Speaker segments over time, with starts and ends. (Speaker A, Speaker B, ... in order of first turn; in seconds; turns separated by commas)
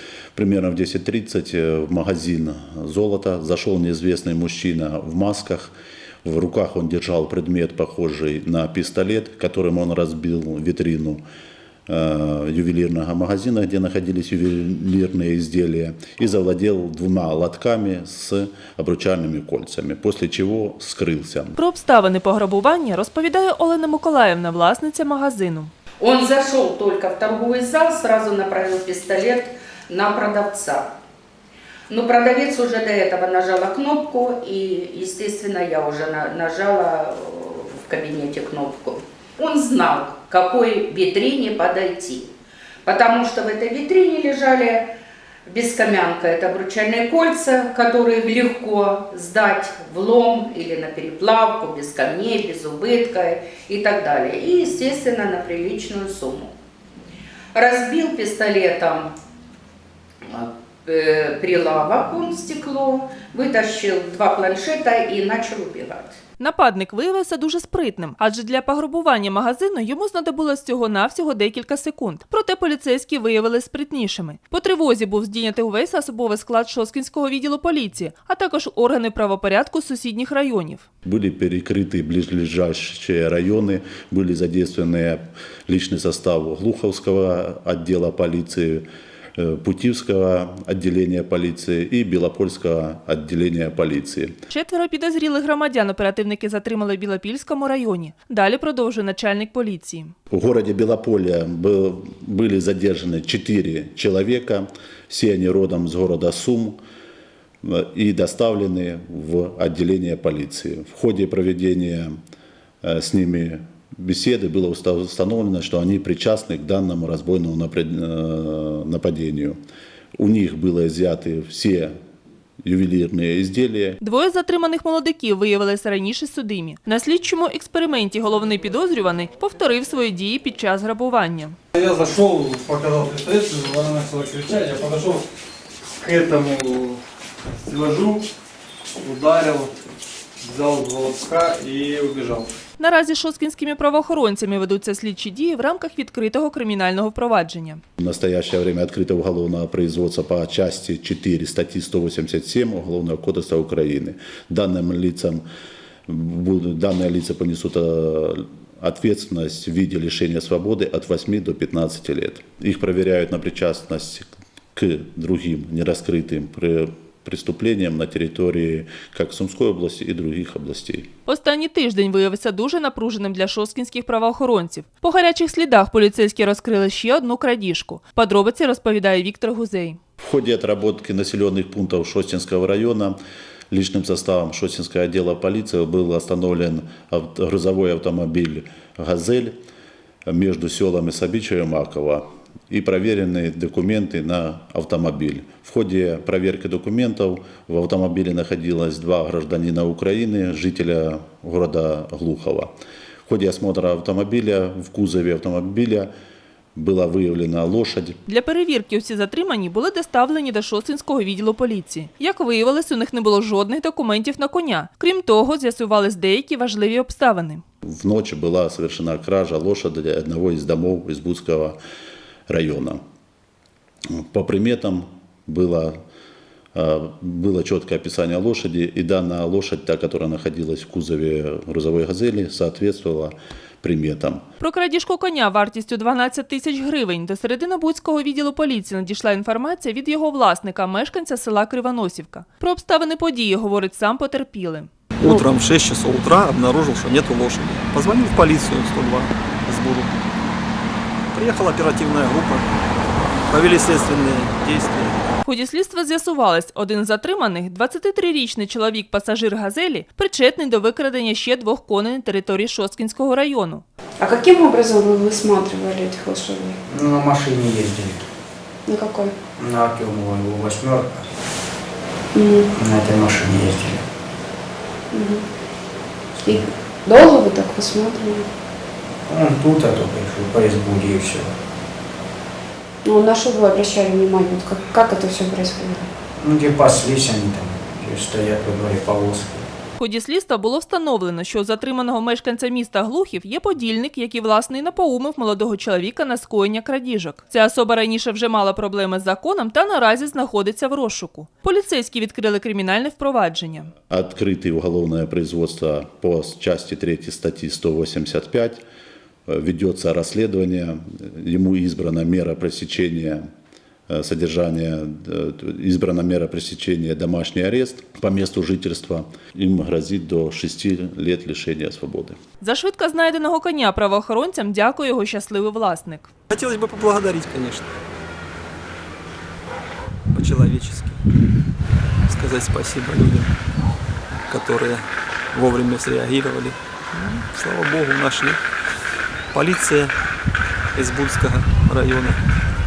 Speaker A: 0.3-5.7, Speaker A: 6.2-11.2, Speaker A: 11.9-21.5, Speaker B: 21.6-25.7, Speaker C: 26.0-30.9, Speaker C: 31.9-42.3, Speaker C: 42.8-44.9, Speaker C: 45.5-56.5, Speaker C: 57.5-59.1, Speaker C: 60.3-66.2, Speaker B: 66.4-80.8, Speaker A: 81.0-88.8, Speaker A: 89.4-94.4, Speaker B: 94.5-100.1, Speaker A: 100.3-106.8, Speaker A: 107.6-112.1, Speaker A: 112.8-119.6, Speaker A: 120.2-121.9, Speaker A: 122.6-124.0, Speaker B: 124.0-131.6, Speaker D: 131.7-135.2, Speaker D: 136.0-137.0, Speaker D: 137.6-138.2, Speaker D: 139.0-139.7, Speaker D: 140.4-142.5, Speaker B: 142.8-147.8, Speaker A: 148.0-155.4, Speaker A: 156.1-171.1, Speaker B: 171.2-180.0, Speaker A: 180.2-183.2, Speaker A: 183.7-189.5, Speaker A: 190.3-202.7, Speaker A: 203.2-206.1, Speaker A: 206.8-208.2, Speaker B: 208.2-217.6, Speaker A: 217.8-221.8, Speaker A: 222.5-223.0, Speaker A: 224.2-225.9, Speaker A: 226.7-234.4, Speaker B: 234.6-245.4, Speaker E: 245.2-250.3, Speaker E: 251.3-252.7, Speaker E: 253.5-255.2, Speaker B: 255.4-263.8, Speaker F: 264.2-266.8, Speaker G: 266.9-268.2, Speaker F: 268.9-269.3, Speaker G: 269.6-271.3, Speaker F: 272.3-272.7, Speaker G: 272.7-274.0, Speaker F: 275.1-275.4, Speaker F: 276.4-278.4, Speaker G: 279.3-281.5, Speaker F: 283.0-286.1, Speaker G: 286.4-289.6, Speaker B: 290.0-303.9, Speaker A: 304.1-308.8, Speaker A: 309.5-313.4, Speaker A: 314.1-322.4, Speaker B: 322.6-326.3, Speaker E: 326.5-327.9, Speaker E: 330.3-331.2, Speaker E: 332.3-333.5, Speaker E: 334.5-338.6, Speaker E: 339.5-340.1, Speaker E: 340.9-342.4